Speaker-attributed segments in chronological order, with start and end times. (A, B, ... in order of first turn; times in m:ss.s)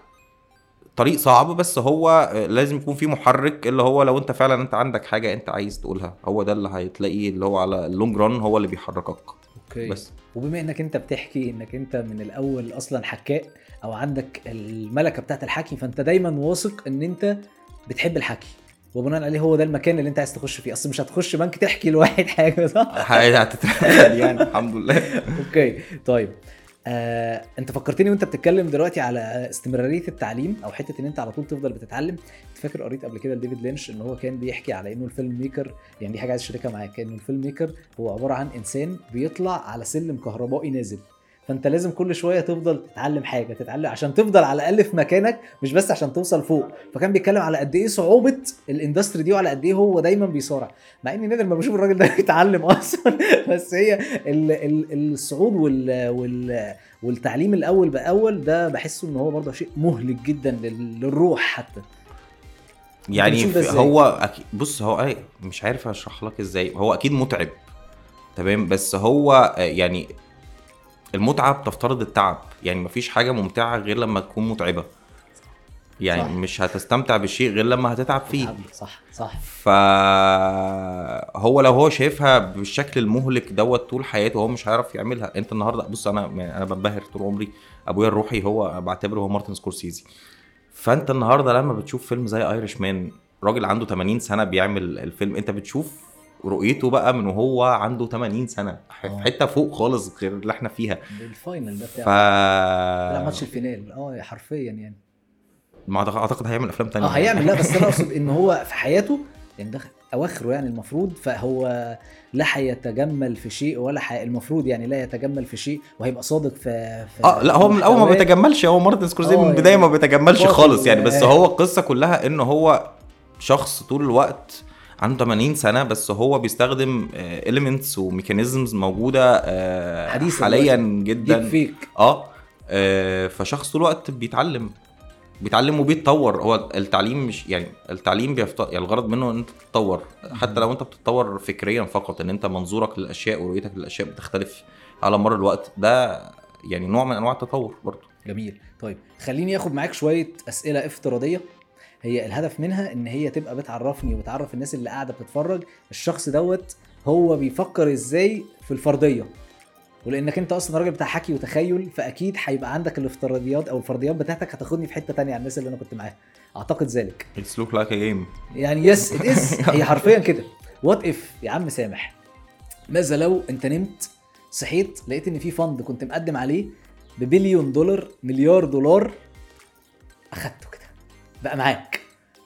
0:01.0-0:10.1 A
0:09.6-0:23.3 B
0:22.9-0:25.4 A
0:23.8-0:24.5 B
0:25.1-1:01.8 B
1:03.1-1:07.6 A
1:03.2-1:04.0 B
1:08.4-1:10.1 A
1:11.2-1:14.9 A
1:16.0-1:18.6 A
1:16.1-1:16.4 B
1:18.3-1:19.4 B
1:19.4-1:30.0 A
1:30.8-1:41.1 A
1:39.0-1:39.3 B
1:41.1-1:42.2 B
1:41.8-1:43.5 A
1:43.1-1:45.0 B
1:45.9-1:48.1 A
1:47.0-1:58.3 B
1:57.2-2:14.8 A
1:59.2-2:01.4 B
2:10.1-2:11.9 B
2:15.4-2:28.1 A
2:20.3-2:20.7 B
2:28.2-2:31.5 B
2:32.0-2:39.3 B
2:40.0-2:47.3 B
2:47.4-2:48.3 A
2:48.5-2:52.2 B
2:48.9-2:50.1 A
2:52.9-2:59.2 B
3:00.3-3:02.0 B